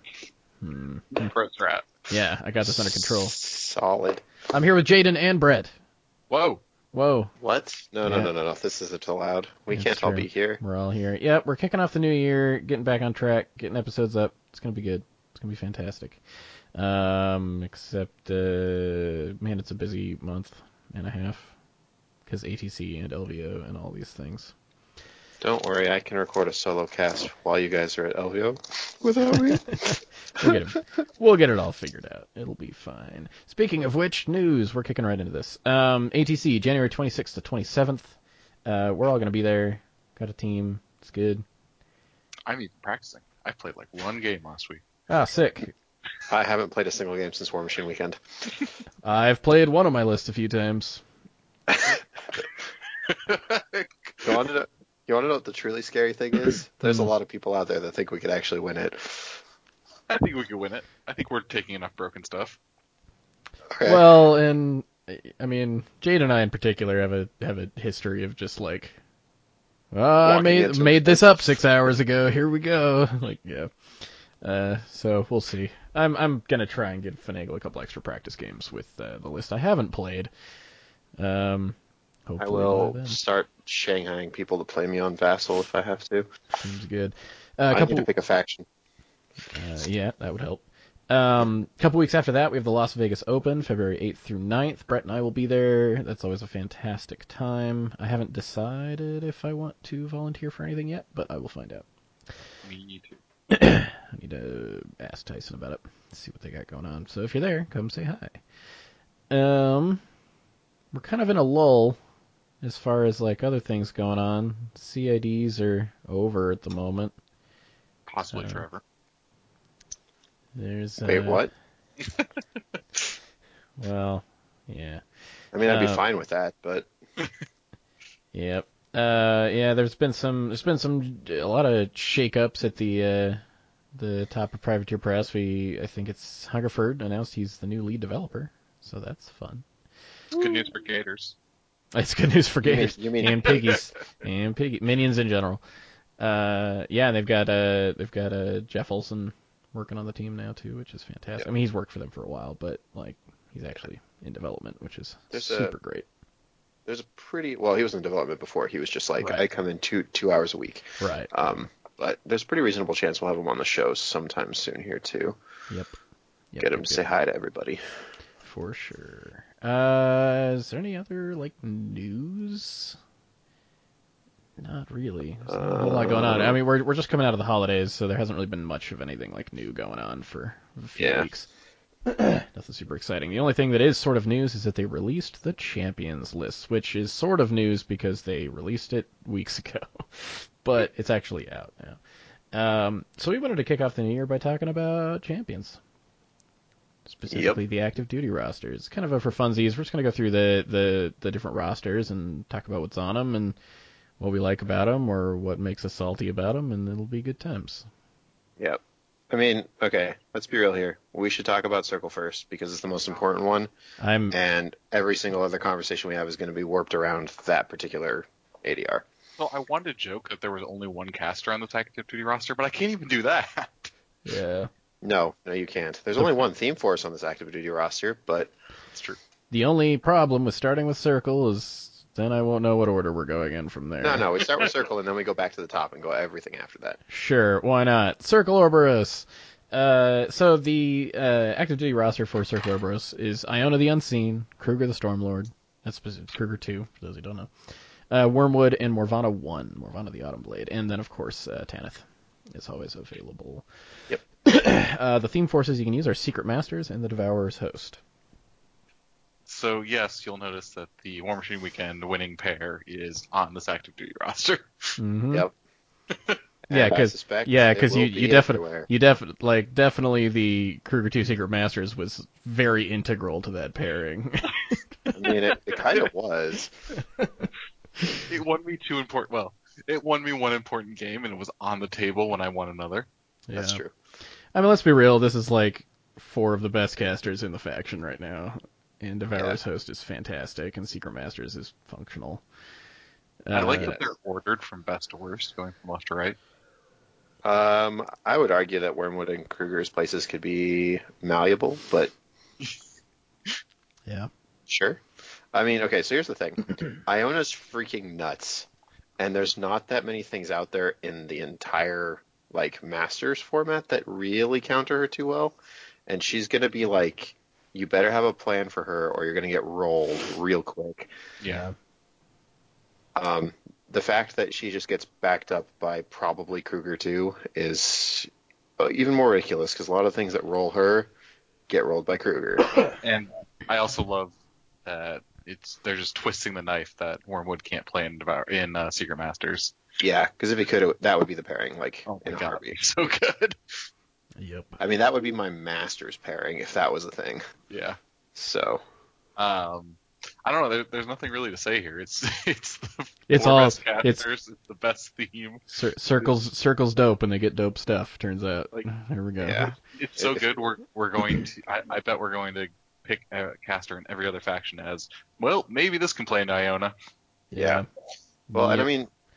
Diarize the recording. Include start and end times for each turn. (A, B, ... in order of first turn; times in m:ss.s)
0:00.6-0:01.3 A
0:01.1-0:02.0 B
0:02.1-0:03.4 A
0:02.6-0:04.2 C
0:04.5-0:05.7 A
0:06.3-0:06.6 B
0:06.9-0:07.3 A
0:07.4-0:10.6 C
0:08.0-0:08.3 A
0:09.7-0:16.2 A
0:16.7-0:21.5 A
0:22.3-0:24.5 A
0:25.4-0:30.6 C
0:29.4-0:38.2 A
0:38.7-0:41.4 A
0:42.5-0:44.8 B
0:45.1-0:45.7 A
0:46.3-0:48.2 C
0:49.0-0:51.0 A
0:51.7-0:52.0 C
0:53.1-0:54.3 B
0:54.2-0:59.4 C
0:56.8-0:57.1 A
1:00.1-1:02.6 B
1:03.7-1:04.0 C
1:03.8-1:09.0 A
1:09.9-1:13.7 A
1:10.3-1:11.6 C
1:14.4-1:20.3 A
1:21.2-1:23.2 A
1:22.4-1:26.3 C
1:26.6-1:28.1 A
1:27.7-1:28.7 C
1:29.5-1:41.9 A
1:42.6-1:43.2 B
1:43.5-1:48.4 A
1:49.3-1:50.0 A
1:50.9-1:52.0 A
1:52.6-1:57.2 A
1:58.1-1:58.8 B
1:58.3-1:58.6 A
2:00.6-2:01.5 A
2:01.0-2:01.5 C
2:02.0-2:02.2 B
2:03.8-2:05.0 A
2:05.5-2:06.9 C
2:05.6-2:06.0 A
2:08.3-2:13.4 A
2:14.0-2:19.6 A
2:20.3-2:21.4 B
2:20.3-2:20.7 C
2:21.9-2:25.6 A
2:22.6-2:23.6 C
2:26.2-2:36.1 A
2:35.3-2:35.7 C
2:36.9-2:45.4 C
2:39.2-2:39.4 A
2:41.0-2:41.3 A
2:45.7-2:46.0 A
2:46.5-2:47.1 A
2:46.6-2:47.8 C
2:48.4-2:53.0 A
2:54.6-3:01.5 A
2:55.5-2:56.6 C
3:01.0-3:01.3 C
3:02.1-3:12.0 A
3:12.5-3:15.8 A
3:17.1-3:23.6 A
3:17.3-3:17.6 C
3:24.2-3:27.9 A
3:28.6-3:33.7 C
3:34.0-3:34.4 A
3:34.3-3:39.0 C
3:39.4-3:43.9 B
3:44.3-3:44.7 A
3:45.0-3:48.5 C
3:48.9-3:49.2 B
3:49.5-3:54.3 A
3:54.0-3:57.0 C
3:57.1-4:07.5 A
4:08.1-4:13.7 A
4:14.4-4:18.0 A
4:19.5-4:25.0 B
4:25.0-4:25.5 A
4:26.1-4:26.4 B
4:26.7-4:28.9 C
4:26.7-4:35.1 A
4:35.1-4:36.7 C
4:37.2-4:37.5 A
4:38.3-4:43.1 B
4:43.5-4:43.8 A
4:43.5-4:43.9 C
4:44.5-4:52.4 A
4:53.5-4:54.0 A
4:53.5-4:56.4 B
4:57.4-5:02.1 C
5:04.7-5:05.0 C
5:05.5-5:08.7 C
5:09.2-5:15.6 C
5:16.1-5:21.1 C
5:21.4-5:21.7 B
5:21.5-5:21.8 A
5:23.2-5:31.1 C
5:31.7-5:32.8 C
5:33.0-5:34.3 B
5:34.8-5:39.8 B
5:40.0-5:42.7 C
5:42.1-5:43.8 B
5:44.4-5:44.8 A
5:44.8-5:47.4 C
5:47.7-5:48.0 B
5:48.4-5:48.8 C
5:49.4-5:55.6 B
5:53.3-5:54.2 A
5:55.7-5:59.8 A
5:59.4-6:00.5 C
5:59.9-6:06.9 B
6:07.5-6:07.9 A
6:07.6-6:07.8 C
6:08.5-6:08.9 A
6:08.5-6:09.1 C